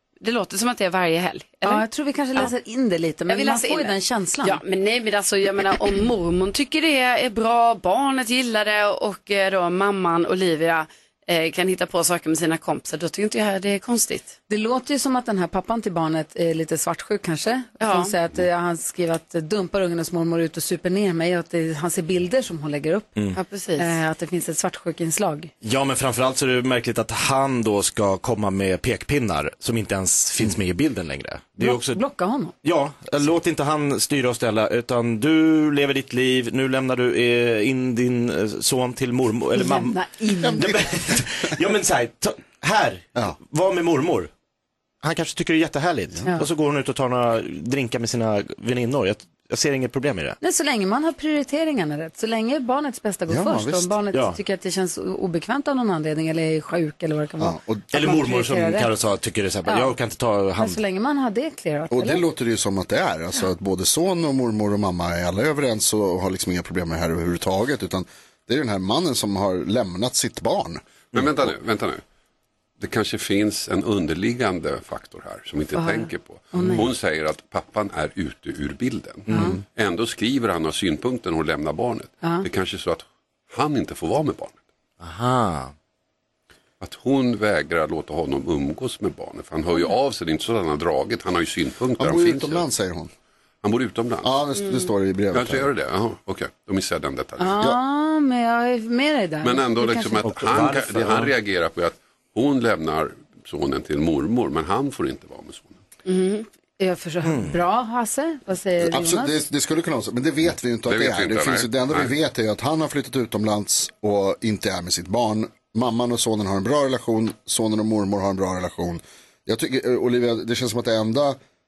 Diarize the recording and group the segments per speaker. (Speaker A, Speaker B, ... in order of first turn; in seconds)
Speaker A: 0.2-2.5, 3.3-14.4, 17.8-18.1, 23.4-23.9, 106.0-106.5
Speaker B: 1.6-4.6, 14.5-23.1, 23.8-25.5, 31.6-32.5, 39.5-40.8, 50.4-58.9, 59.7-59.9, 60.6-62.2, 75.7-76.9, 79.3-79.6, 97.4-100.2, 106.8-109.5
Speaker C: 25.6-32.0, 32.6-40.0, 40.5-44.3, 45.0-50.4, 54.1-54.4, 57.9-60.8, 79.3-79.5, 85.0-85.7, 100.2-101.3, 107.2-107.5
Speaker D: 40.4-40.7, 53.3-53.9, 57.4-57.9, 61.9-71.2, 92.0-93.1, 94.2-95.7, 108.8-121.4
Speaker E: 71.1-72.0, 72.8-84.6, 86.8-92.7, 93.6-94.3, 95.3-97.6, 99.4-105.8, 110.8-112.1